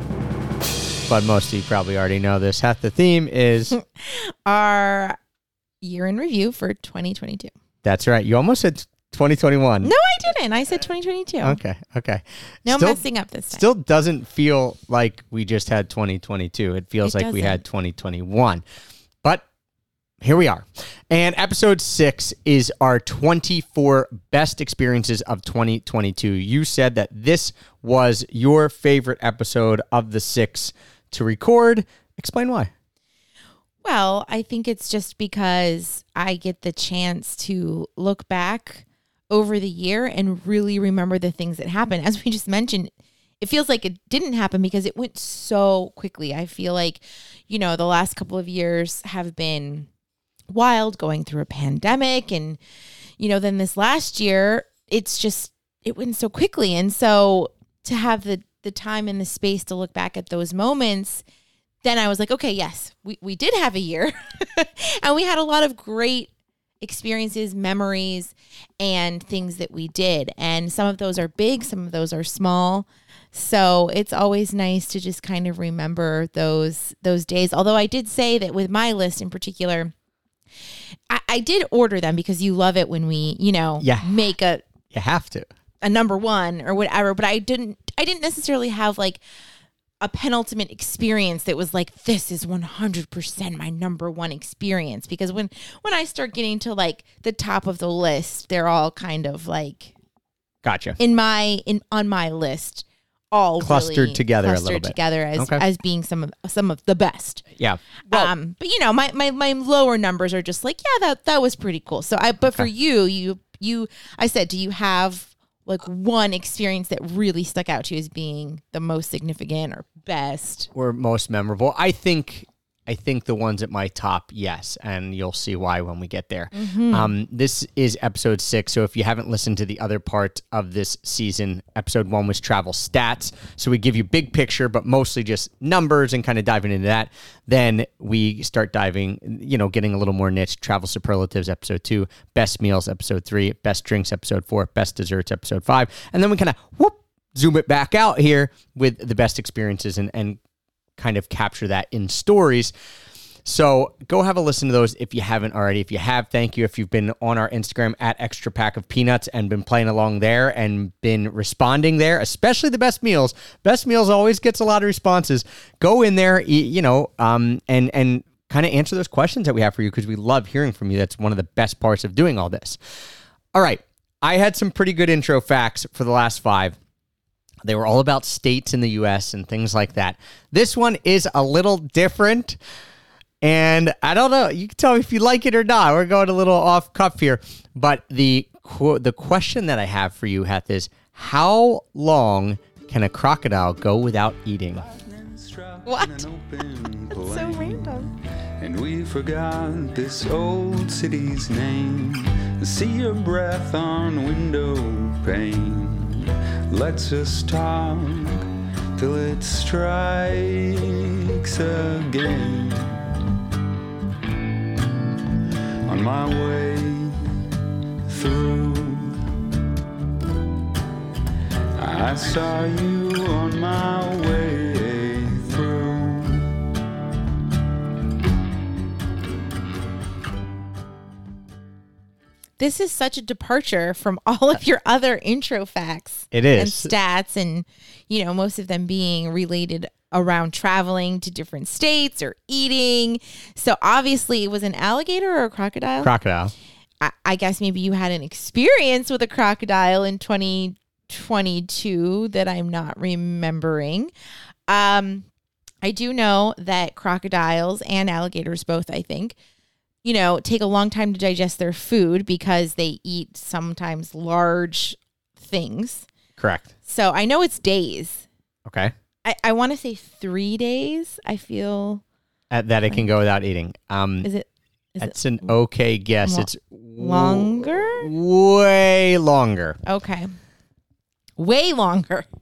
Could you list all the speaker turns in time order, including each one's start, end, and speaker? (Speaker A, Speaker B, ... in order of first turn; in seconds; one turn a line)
Speaker A: 1.1-3.8
Speaker B: 3.7-5.2
Speaker B: 5.8-7.5
Speaker A: 7.8-9.9
Speaker B: 9.8-11.6
Speaker A: 11.4-13.0
Speaker B: 12.7-13.7
Speaker A: 13.5-18.6
Speaker B: 17.0-17.6
Speaker A: 20.2-32.7
Speaker B: 33.8-49.9
Speaker B: 50.5-52.6
Speaker B: 53.2-61.2
Speaker B: 61.8-66.3
Speaker B: 66.8-79.9
Speaker B: 81.1-84.7
Speaker A: 83.8-84.1
Speaker A: 84.9-85.5
Speaker B: 85.8-89.2
Speaker B: 90.0-99.9
Speaker A: 100.6-101.0
Speaker B: 101.0-107.4
Speaker A: 103.6-105.6
Speaker A: 107.6-108.3
Speaker B: 108.1-120.7
Speaker A: 120.7-150.4
Speaker B: 126.5-127.1
Speaker A: 151.0-152.7
Speaker A: 153.4-172.8
Speaker A: 173.5-176.8
Speaker A: 177.6-182.6
Speaker A: 183.4-194.8
Speaker C: 194.8-212.9
Speaker B: 195.8-196.3
Speaker B: 197.1-198.1
Speaker C: 215.8-217.2
Speaker C: 218.1-219.2
Speaker C: 221.8-226.5
Speaker B: 232.6-246.1
Speaker A: 236.3-236.9
Speaker A: 246.0-246.5
Speaker B: 247.0-254.1
Speaker B: 254.7-255.2
Speaker B: 255.8-259.4
Speaker B: 260.0-266.1
Speaker A: 266.4-266.7
Speaker B: 266.9-268.2
Speaker A: 268.6-268.9
Speaker B: 269.2-272.0
Speaker A: 272.5-274.3
Speaker B: 274.2-275.5
Speaker A: 275.0-279.8
Speaker B: 276.2-278.1
Speaker B: 279.8-280.3
Speaker B: 281.4-282.3